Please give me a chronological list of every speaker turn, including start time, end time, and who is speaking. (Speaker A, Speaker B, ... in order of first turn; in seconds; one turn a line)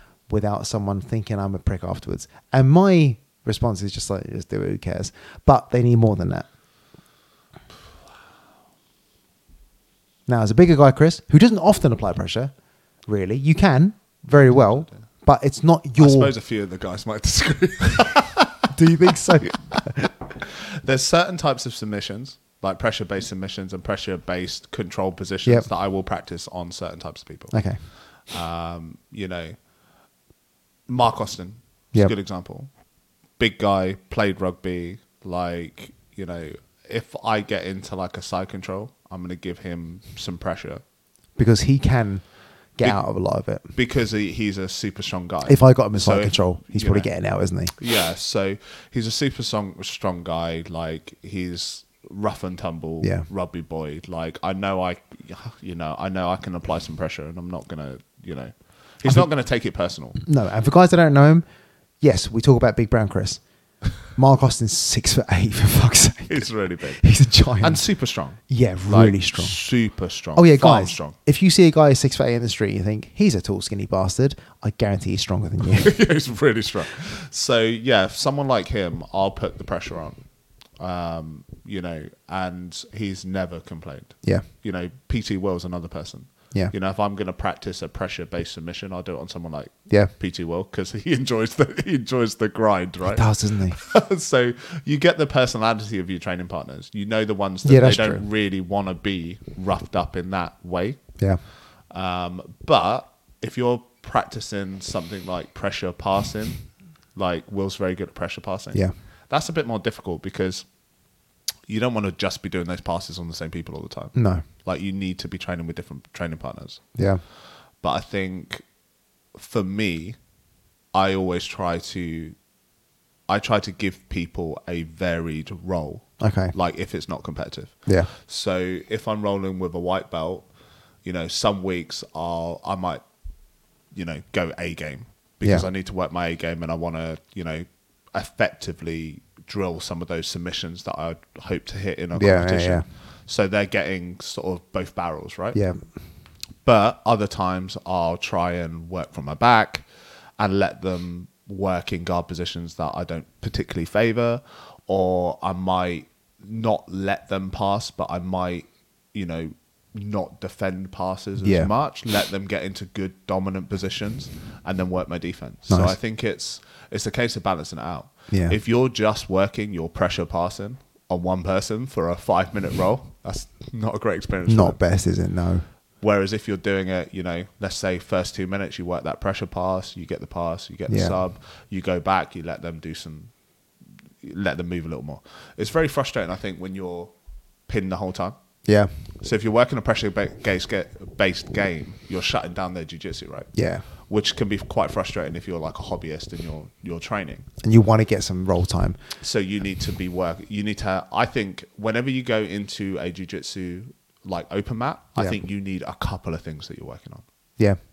Speaker A: 0.3-6.5
Speaker A: 10.3-12.5
Speaker A: 13.1-16.3
Speaker B: 16.0-18.7
Speaker A: 18.7-20.1
Speaker B: 20.4-29.6
Speaker A: 27.5-27.8
Speaker B: 30.9-32.7
Speaker B: 33.4-40.8
Speaker A: 41.4-43.7
Speaker B: 43.7-47.1
Speaker A: 45.5-47.7
Speaker B: 47.8-60.2
Speaker A: 53.0-53.3
Speaker A: 60.2-61.4
Speaker A: 62.0-63.4
Speaker A: 64.1-67.8
Speaker B: 66.3-67.0
Speaker B: 67.6-71.1
Speaker A: 68.5-69.6
Speaker A: 70.3-75.9
Speaker B: 75.7-80.2
Speaker B: 80.8-101.1
Speaker A: 93.1-93.8
Speaker A: 97.6-98.2
Speaker B: 101.8-110.7
Speaker B: 111.7-116.8
Speaker A: 114.1-114.4
Speaker A: 116.9-117.2
Speaker B: 117.7-118.6
Speaker B: 119.3-120.2
Speaker B: 120.9-122.3
Speaker B: 123.3-130.5
Speaker A: 126.2-126.5
Speaker A: 127.8-128.1
Speaker B: 131.0-133.0
Speaker B: 133.9-145.6
Speaker A: 135.4-135.7
Speaker A: 142.1-142.8
Speaker A: 145.5-145.8
Speaker B: 146.6-174.8
Speaker A: 161.4-161.7
Speaker A: 165.7-166.0
Speaker A: 168.3-168.6
Speaker A: 174.5-175.7
Speaker B: 176.0-183.3
Speaker A: 180.9-181.2
Speaker B: 184.2-187.1
Speaker B: 187.7-188.3
Speaker A: 188.6-188.9
Speaker B: 189.2-197.5
Speaker A: 193.5-193.8
Speaker A: 197.6-199.0
Speaker B: 199.2-207.2